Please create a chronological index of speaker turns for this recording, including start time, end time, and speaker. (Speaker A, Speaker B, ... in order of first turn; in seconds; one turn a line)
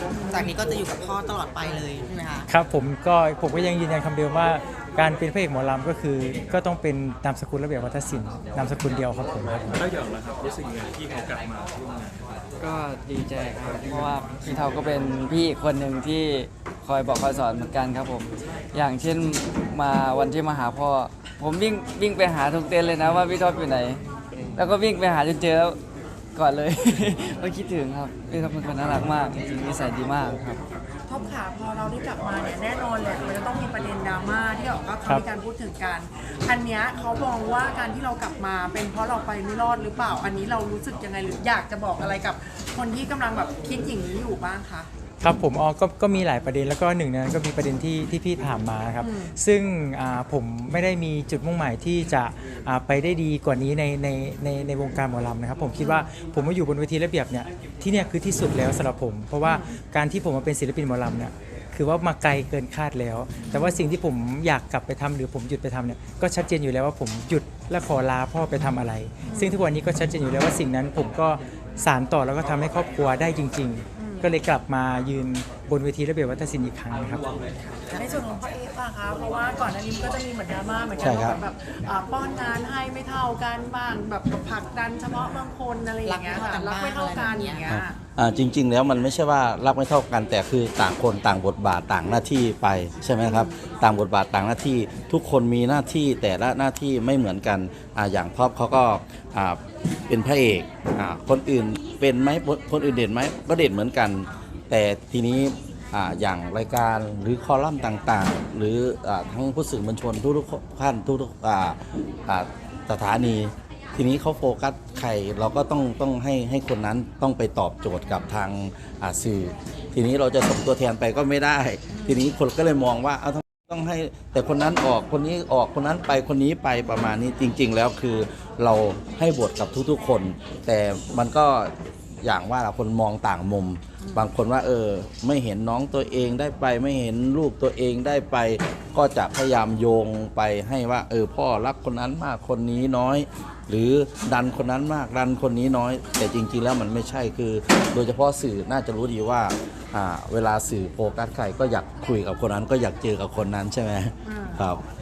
Speaker A: 0.1-0.5
Speaker B: 0.3-2.5
Speaker C: 2.5-9.8
Speaker D: 9.7-12.2
Speaker E: 12.6-24.0
Speaker E: 24.5-25.8
Speaker E: 26.3-30.6
Speaker A: 31.1-44.9
Speaker C: 45.2-77.2
Speaker A: 49.0-49.3
Speaker A: 55.8-56.1
Speaker A: 59.4-59.8
Speaker A: 63.4-63.8
Speaker A: 69.2-69.6
Speaker A: 74.0-74.3
Speaker A: 77.6-88.0
Speaker B: 77.9-78.2
Speaker F: 81.0-81.4
Speaker B: 86.0-87.7
Speaker F: 87.7-154.8
Speaker A: 93.2-93.5
Speaker A: 121.9-122.2
Speaker A: 134.0-134.3
Speaker A: 154.2-154.6